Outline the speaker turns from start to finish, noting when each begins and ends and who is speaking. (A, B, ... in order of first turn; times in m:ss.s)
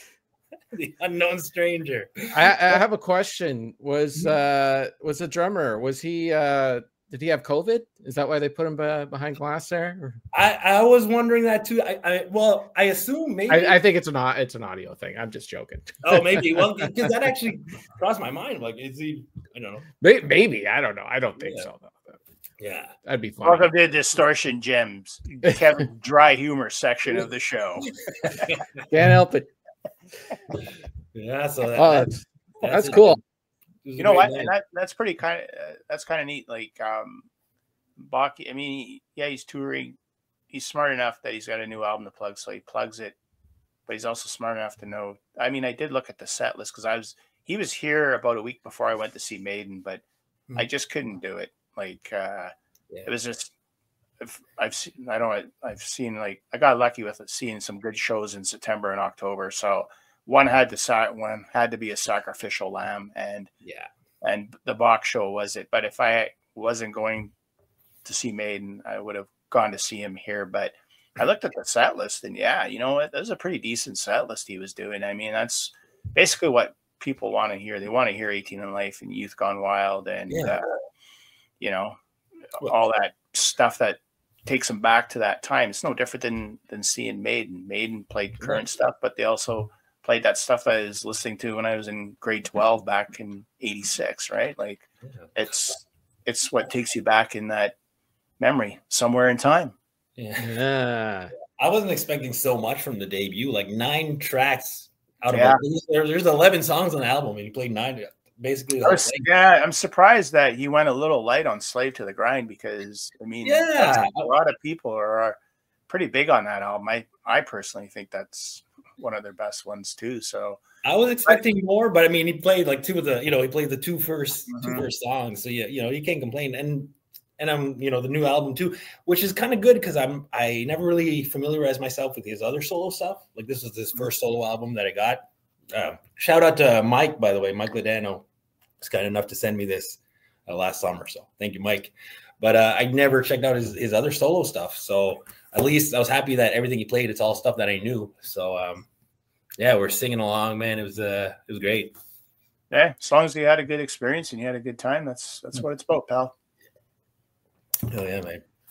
0:00.7-0:02.8 A
0:02.3-0:10.2 B
0:10.3-0:13.8 A
0:13.5-0:16.8 B
0:16.0-0:19.8 A
0:20.0-0:22.2 B
0:21.4-0:21.7 A
0:22.6-0:22.9 A
0:23.0-0:23.7 B
0:23.4-0:28.4 C
0:28.2-0:28.6 A
0:28.9-0:29.5 B
0:31.1-0:33.2 A
0:31.7-0:33.2 B
0:33.8-0:34.5 A
0:34.0-0:37.3 C
0:38.0-0:40.0 C
0:40.5-0:43.2 C
0:43.9-0:50.0 C
0:50.6-0:52.5 C
0:53.0-0:53.5 C
0:54.2-1:03.5 C
1:03.6-1:03.9 A
1:04.2-1:07.3 C
1:08.0-1:20.7 C
1:20.3-1:20.6 A
1:21.6-1:22.0 C
1:22.6-1:37.7 C
1:38.4-1:39.7 C
1:40.2-1:40.6 A
1:40.4-1:41.3 B
1:41.5-1:49.3 A
1:45.3-1:45.6 C
1:48.8-1:55.4 C
1:53.4-1:54.3 A
1:55.9-2:00.6 C
2:00.8-2:15.2 A
2:04.5-2:04.8 C
2:15.7-2:18.2 A
2:18.8-2:28.9 A
2:29.6-2:31.9 A
2:32.7-2:36.3 C
2:37.9-2:38.4 A